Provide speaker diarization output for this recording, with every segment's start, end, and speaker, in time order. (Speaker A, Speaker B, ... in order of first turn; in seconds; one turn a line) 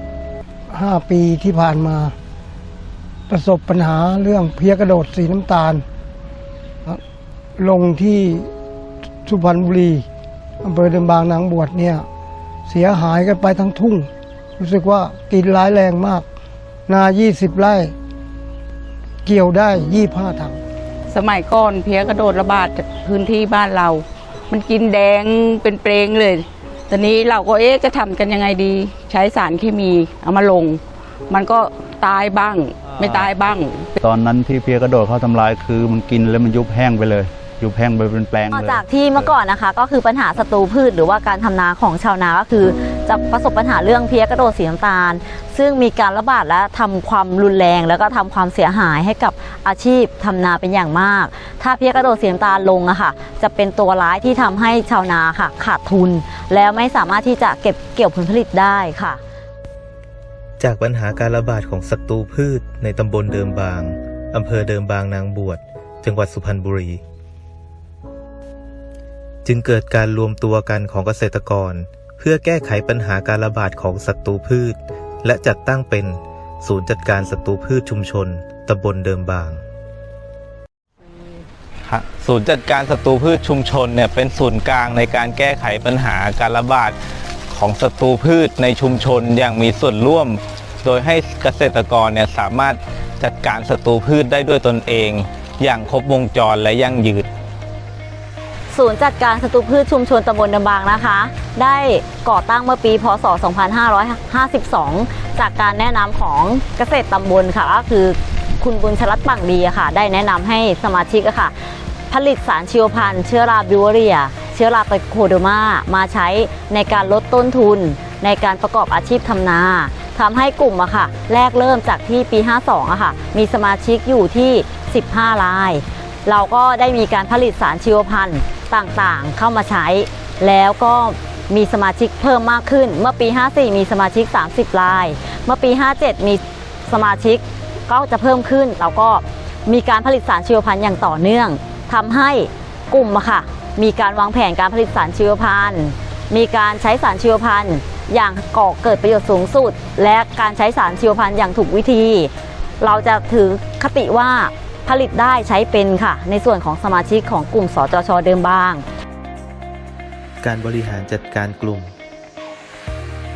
Speaker A: 0.7-2.1
Speaker A: 3.3-5.8
Speaker A: 7.6-8.5
Speaker A: 9.2-10.1
Speaker A: 10.6-12.1
Speaker A: 12.7-16.2
Speaker A: 16.9-17.9
Speaker A: 19.2-20.6
Speaker B: 21.1-33.9
Speaker C: 33.0-33.3
Speaker C: 34.0-39.3
Speaker D: 38.5-59.2
Speaker E: 60.6-67.0
Speaker E: 69.5-79.6
Speaker F: 81.9-87.0
Speaker F: 87.5-97.3
Speaker D: 98.7-111.5
Speaker D: 112.1-158.8
Speaker E: 160.4-161.9